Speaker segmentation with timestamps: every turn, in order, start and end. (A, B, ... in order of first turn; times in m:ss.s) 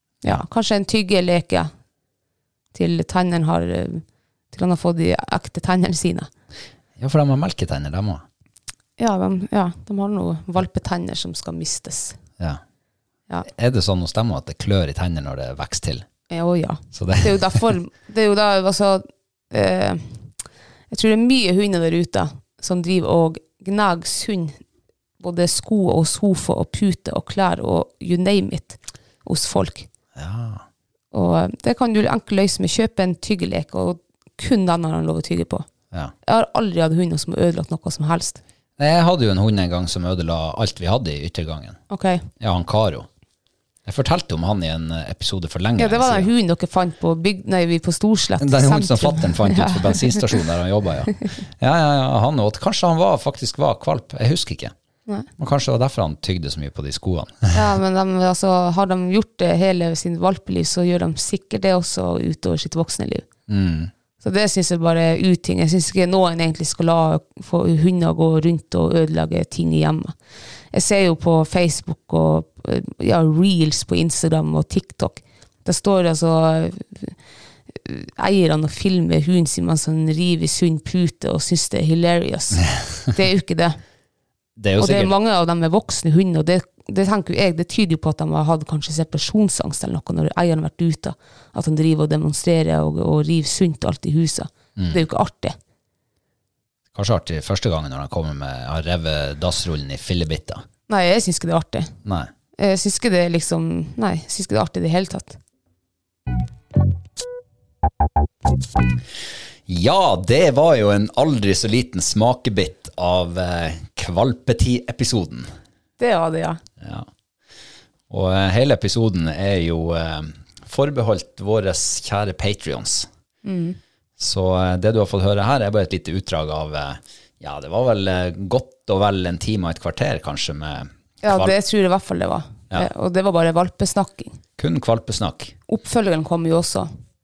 0:00.2-0:01.7 A
0:02.7-0:06.3 A
0:07.0-0:08.2 B
0:09.0-0:12.2 A
0:13.5-0:16.0 B
0:16.3-0:20.1 A
0:16.9-0:17.7 B
0:20.9-0:24.6 A
0:25.2-0:29.9 A
0:30.2-0:30.6 B
0:31.1-0:35.7 A
0:36.2-0:38.4 A
0:38.8-0:41.8 B
0:41.9-0:42.3 A
0:42.4-0:43.1 B
0:43.9-0:46.3 B
0:45.8-0:49.8 A
0:48.4-0:54.7 B
0:55.4-0:57.8 B
0:57.5-1:03.3 A
1:03.5-1:03.9 B
1:04.2-1:10.1 A
1:10.7-1:17.2 A
1:17.8-1:23.8 A
1:24.6-1:25.2 B
1:24.8-1:35.6 A
1:34.8-1:35.0 B
1:36.9-1:40.6 B
1:40.9-1:41.9 A
1:42.0-1:42.3 B
1:42.6-1:45.4 A
1:49.7-1:55.5 B
1:56.0-1:56.6 A
1:56.8-1:57.1 B
1:58.1-2:03.1 B
2:03.4-2:03.8 A
2:04.2-2:11.6 B
2:11.2-2:14.4 A
2:14.6-2:15.6 B
2:15.7-2:16.9 A